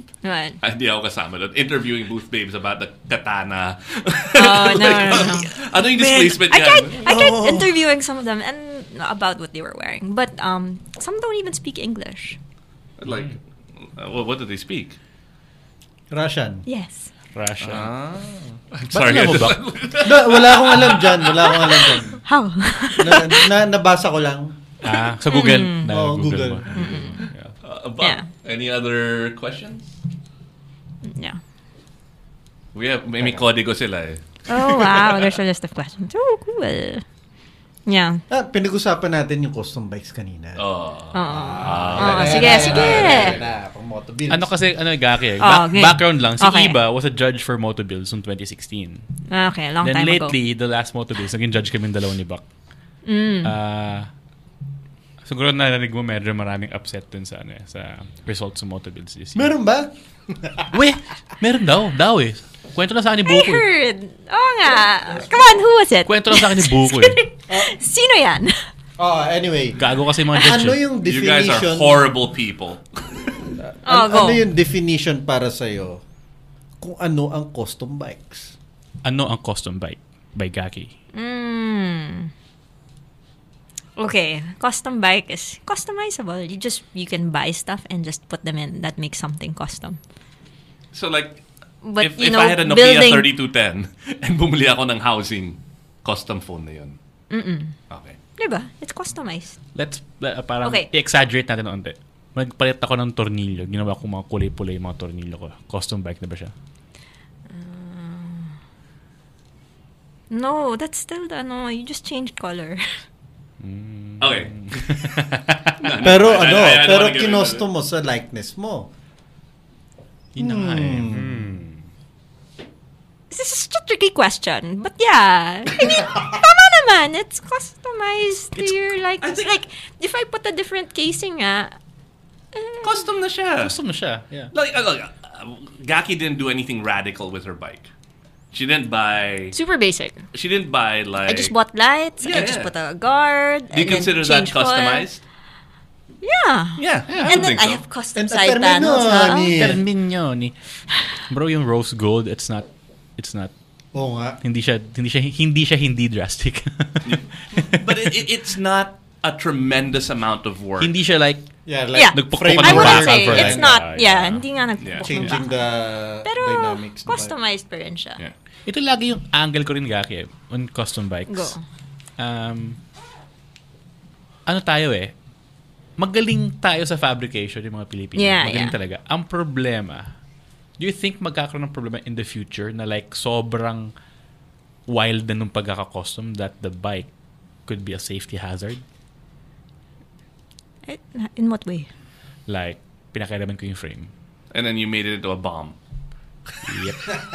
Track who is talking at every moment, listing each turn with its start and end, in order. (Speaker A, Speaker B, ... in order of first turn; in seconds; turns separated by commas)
Speaker A: 0.2-0.6, Speaker B: 0.6-7.8, Speaker A: 4.3-12.4, Speaker B: 13.0-15.0, Speaker C: 13.1-13.3, Speaker D: 16.1-16.6, Speaker A: 16.7-17.1, Speaker C: 17.3-17.9, Speaker B: 17.6-21.9, Speaker C: 18.9-19.6, Speaker D: 20.0-22.2, Speaker A: 22.2-23.5, Speaker D: 23.0-24.5, Speaker C: 24.8-27.5, Speaker A: 25.3-25.9, Speaker D: 25.7-27.1, Speaker A: 26.8-27.3, Speaker B: 27.6-29.9, Speaker A: 28.0-28.3, Speaker A: 31.0-31.4, Speaker B: 32.7-35.3, Speaker A: 34.5-37.0, Speaker A: 37.9-38.2, Speaker D: 38.3-40.6, Speaker B: 40.6-43.5, Speaker A: 41.1-43.4, Speaker D: 41.3-44.5, Speaker C: 44.3-49.0, Speaker A: 45.4-46.8, Speaker A: 49.3-50.4, Speaker C: 49.8-52.4, Speaker A: 53.0-53.5, Speaker C: 53.4-54.1, Speaker C: 55.2-59.5, Speaker D: 59.4-60.7, Speaker C: 60.7-63.6, Speaker A: 63.3-68.7, Speaker C: 66.0-67.2, Speaker D: 69.0-72.1, Speaker C: 69.8-70.8, Speaker B: 71.0-73.5, Speaker D: 73.6-76.0, Speaker A: 73.8-74.5, Speaker D: 76.8-78.5, Speaker C: 79.0-80.9, Speaker A: 81.1-82.3, Speaker A: 84.0-90.0, Speaker B: 90.9-91.4, Speaker A: 91.8-93.3, Speaker B: 92.0-97.0, Speaker A: 97.3-97.8, Speaker B: 97.9-98.2, Speaker A: 98.4-99.6, Speaker C: 99.8-106.5, Speaker A: 100.6-100.9, Speaker A: 107.5-108.5, Speaker A: 110.3-112.8, Speaker C: 113.6-115.9, Speaker B: 114.2-115.2, Speaker B: 115.8-117.7, Speaker D: 116.0-118.9, Speaker C: 120.4-121.8, Speaker D: 120.4-121.5, Speaker A: 123.3-131.7, Speaker B: 129.2-129.5, Speaker A: 132.5-133.0, Speaker B: 132.8-133.8, Speaker C: 133.6-134.5, Speaker B: 134.5-137.9, Speaker B: 138.5-139.6, Speaker A: 139.5-140.3, Speaker B: 140.3-141.6, Speaker A: 141.3-145.1, Speaker B: 142.2-142.7, Speaker B: 143.7-145.2, Speaker A: 146.2-149.6, Speaker B: 146.8-147.8, Speaker C: 147.1-147.4, Speaker D: 148.2-149.8, Speaker C: 149.6-150.5, Speaker C: 151.3-153.5, Speaker D: 153.9-154.4, Speaker C: 154.4-158.1, Speaker B: 157.1-160.9, Speaker C: 160.8-161.5, Speaker D: 161.7-163.8, Speaker A: 161.9-165.5, Speaker C: 162.1-164.4, Speaker B: 164.8-165.4, Speaker D: 165.0-167.3, Speaker A: 166.2-168.2, Speaker C: 168.7-171.6, Speaker A: 171.3-171.6, Speaker C: 172.2-172.8, Speaker C: 174.5-175.1, Speaker C: 176.0-180.1, Speaker A: 178.2-178.8, Speaker C: 180.8-183.9, Speaker C: 184.9-187.1, Speaker C: 187.7-188.8, Speaker A: 190.9-191.9, Speaker C: 192.5-194.1, Speaker B: 194.5-195.8, Speaker C: 196.7-197.0